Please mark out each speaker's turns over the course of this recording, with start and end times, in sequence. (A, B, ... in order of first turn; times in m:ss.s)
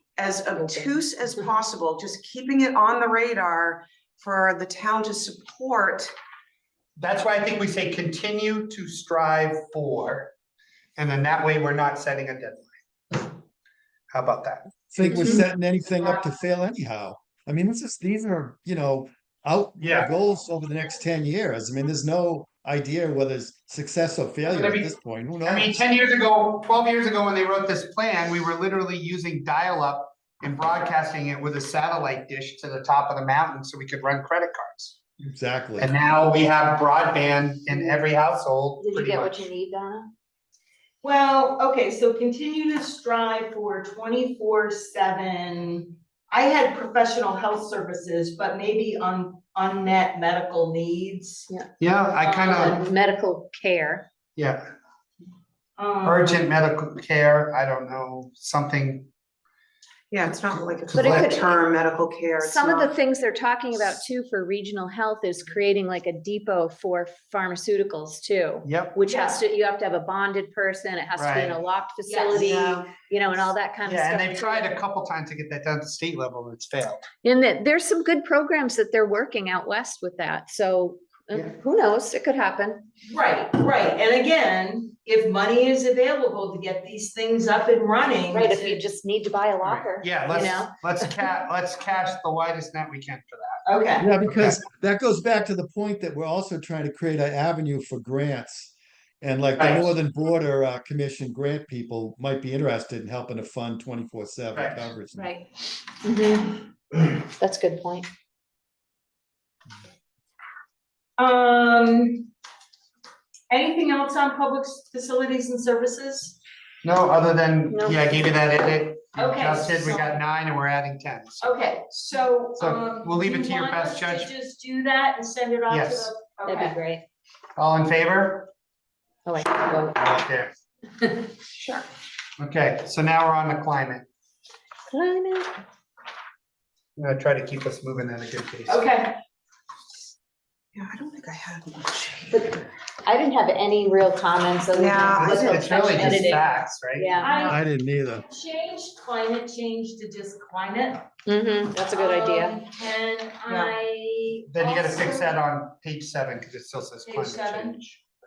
0:00.2-0:06.1 A
0:00.6-0:00.8 B
0:07.0-0:10.3 C
0:11.0-0:13.3 C
0:14.1-0:14.7 C
0:14.9-0:25.8 D
0:15.0-0:15.4 B
0:19.8-0:20.1 C
0:24.4-0:24.9 C
0:25.4-0:35.0 C
0:35.2-0:35.9 D
0:35.8-0:39.5 C
0:38.8-0:40.1 B
0:41.0-0:51.5 E
0:51.8-0:52.8 C
0:52.2-0:52.9 E
0:52.5-0:54.0 B
0:54.4-0:54.6 C
0:55.8-0:56.4 E
0:56.0-0:59.1 C
1:00.1-1:02.9 A
1:00.8-1:01.3 C
1:00.9-1:01.6 B
1:02.4-1:14.7 B
1:08.6-1:09.0 C
1:09.1-1:09.4 E
1:11.2-1:11.6 C
1:12.0-1:12.5 E
1:12.4-1:12.9 A
1:13.8-1:17.0 C
1:17.2-1:22.8 B
1:23.0-1:28.8 E
1:28.3-1:31.2 B
1:29.6-1:33.6 C
1:33.6-1:34.1 E
1:34.0-1:45.2 D
1:34.3-1:34.6 C
1:39.6-1:40.0 C
1:46.0-1:46.6 B
1:47.4-1:48.1 B
1:51.2-1:52.3 E
1:53.5-1:56.4 E
1:56.8-2:01.7 C
1:57.7-1:58.0 B
1:59.1-2:00.2 E
2:01.4-2:06.8 E
2:02.6-2:04.3 C
2:05.7-2:06.1 C
2:06.4-2:07.0 B
2:07.6-2:08.5 C
2:09.2-2:10.0 B
2:09.9-2:10.5 C
2:12.4-2:14.0 C
2:14.9-2:15.5 B
2:17.0-2:18.8 C
2:18.7-2:19.2 E
2:20.7-2:22.4 A
2:22.3-2:27.5 B
2:24.7-2:25.5 A
2:25.1-2:27.1 C
2:27.2-2:31.1 E
2:27.4-2:28.2 D
2:31.2-2:32.6 B
2:31.9-2:35.4 E
2:34.5-2:38.0 C
2:37.1-2:37.8 E